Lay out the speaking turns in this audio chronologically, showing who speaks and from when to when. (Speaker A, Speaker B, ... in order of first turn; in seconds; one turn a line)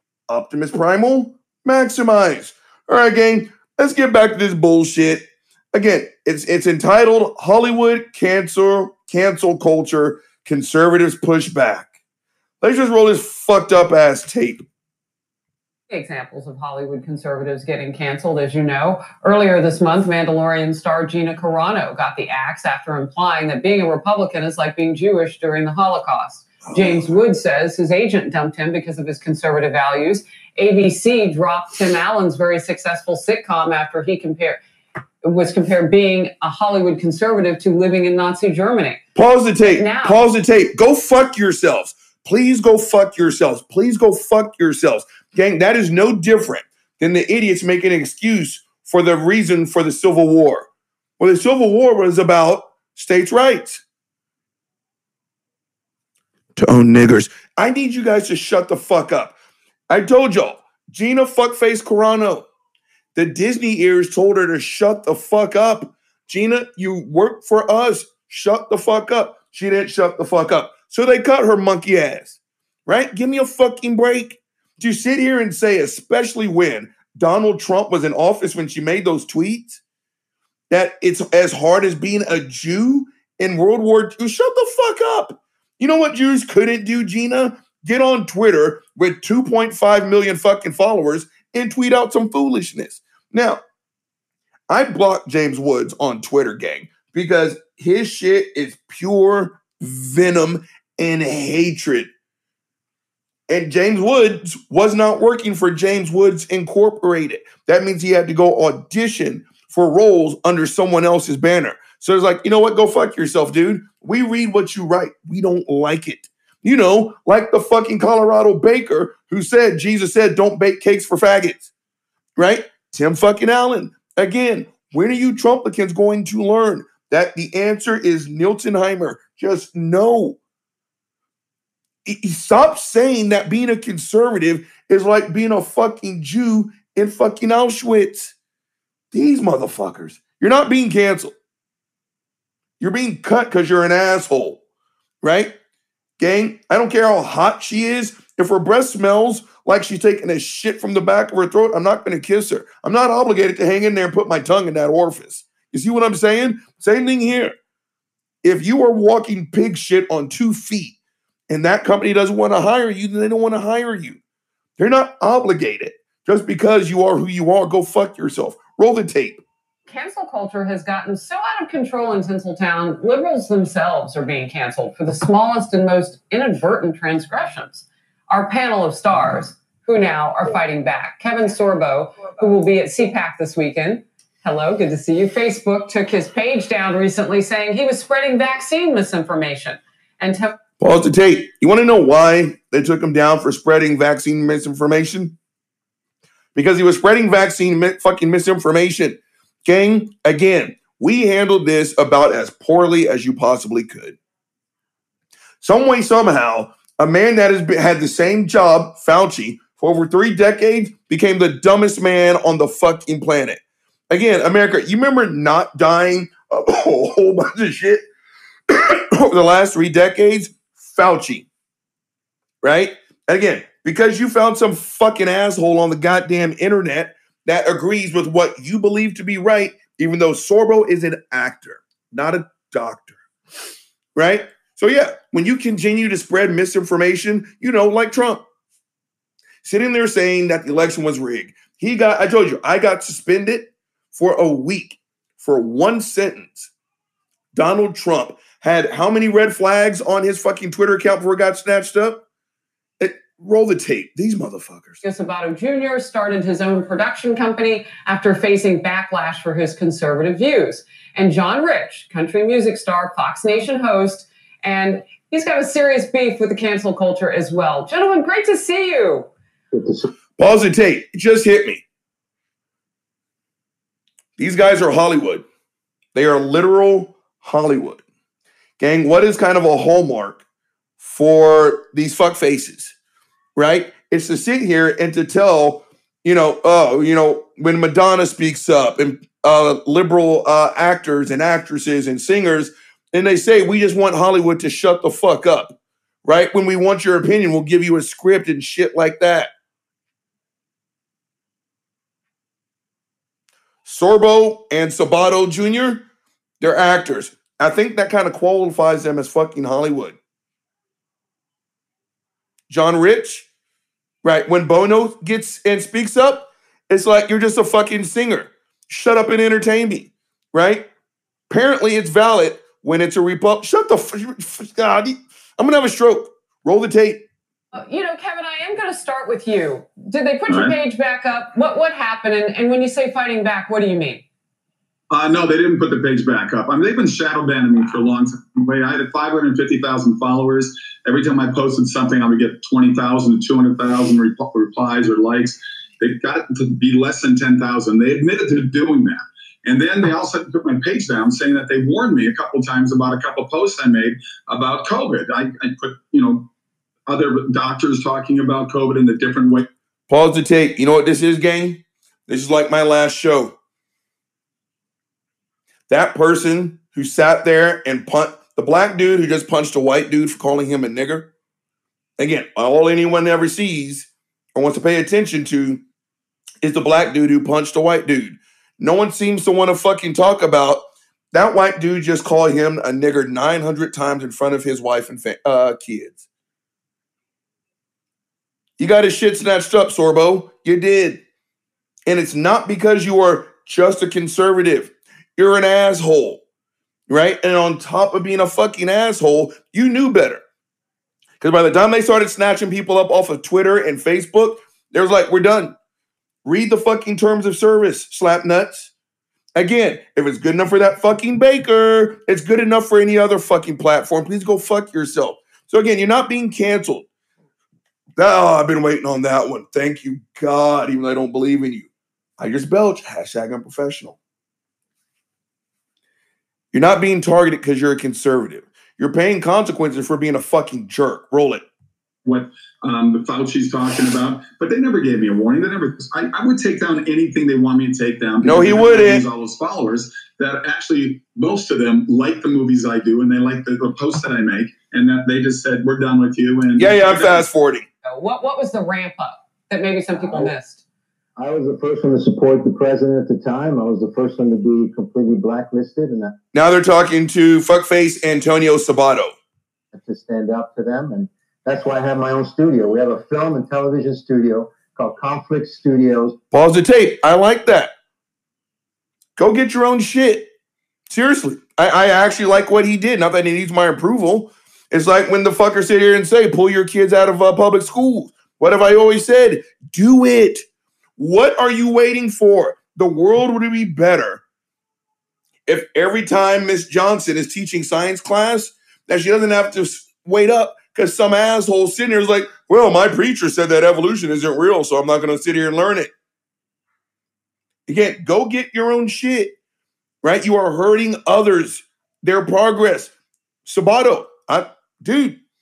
Speaker A: 0.3-11.9
Speaker A: 12.6-14.6
Speaker B: 15.9-34.6
Speaker A: 26.6-27.2
Speaker B: 35.2-39.0
Speaker A: 39.1-50.7
Speaker B: 39.6-40.2
Speaker A: 51.2-53.8
Speaker A: 56.5-59.4
Speaker A: 59.9-62.5
Speaker A: 63.1-79.8
Speaker A: 80.7-93.6
Speaker A: 94.7-102.1
Speaker A: 103.5-121.7
Speaker A: 122.4-130.4
Speaker A: 132.0-138.3
Speaker A: 139.1-141.3
Speaker A: 142.8-144.6
Speaker A: 145.2-145.5
Speaker A: 146.2-157.5
Speaker A: 158.4-160.9
Speaker A: 161.5-164.2
Speaker A: 164.8-169.4
Speaker B: 169.9-190.6
Speaker A: 190.8-195.3
Speaker A: 196.5-204.2
Speaker A: 205.6-218.0
Speaker A: 218.7-221.5
Speaker A: 222.6-233.2
Speaker A: 234.1-238.4
Speaker A: 239.6-246.7
Speaker A: 247.5-252.2
Speaker A: 253.0-255.0
Speaker B: 255.0-269.3
Speaker C: 269.7-270.1
Speaker A: 270.4-271.8
Speaker A: 274.4-275.4
Speaker A: 276.1-278.0
Speaker A: 278.8-280.4
Speaker A: 281.0-282.9
Speaker A: 283.6-299.5
Speaker A: 303.8-306.0
Speaker A: 306.6-310.2
Speaker A: 312.7-313.5
Speaker A: 314.2-320.9
Speaker A: 321.5-327.2
Speaker B: 327.7-334.2
Speaker D: 330.5-330.8
Speaker D: 335.1-356.5
Speaker D: 357.1-359.7
Speaker A: 360.1-363.5
Speaker A: 365.9-371.3
Speaker A: 372.2-375.8
Speaker A: 376.6-386.2
Speaker A: 388.8-391.2
Speaker A: 392.1-396.4
Speaker A: 397.1-400.4
Speaker A: 401.4-405.8
Speaker A: 406.4-408.9
Speaker A: 409.6-417.1
Speaker A: 418.2-421.9
Speaker A: 422.4-424.2
Speaker A: 426.7-431.6
Speaker D: 432.2-447.5
Speaker A: 438.4-439.2
Speaker A: 446.8-447.9
Speaker B: 448.0-450.8
Speaker C: 450.1-450.5
Speaker C: 451.4-456.3
Speaker A: 456.5-459.3
Speaker C: 459.9-466.4
Speaker A: 466.5-467.9
Speaker A: 469.4-470.5
Speaker A: 471.1-480.6
Speaker A: 481.2-484.4
Speaker A: 485.7-496.1
Speaker A: 497.9-499.5
Speaker A: 500.2-503.1
Speaker A: 503.6-505.4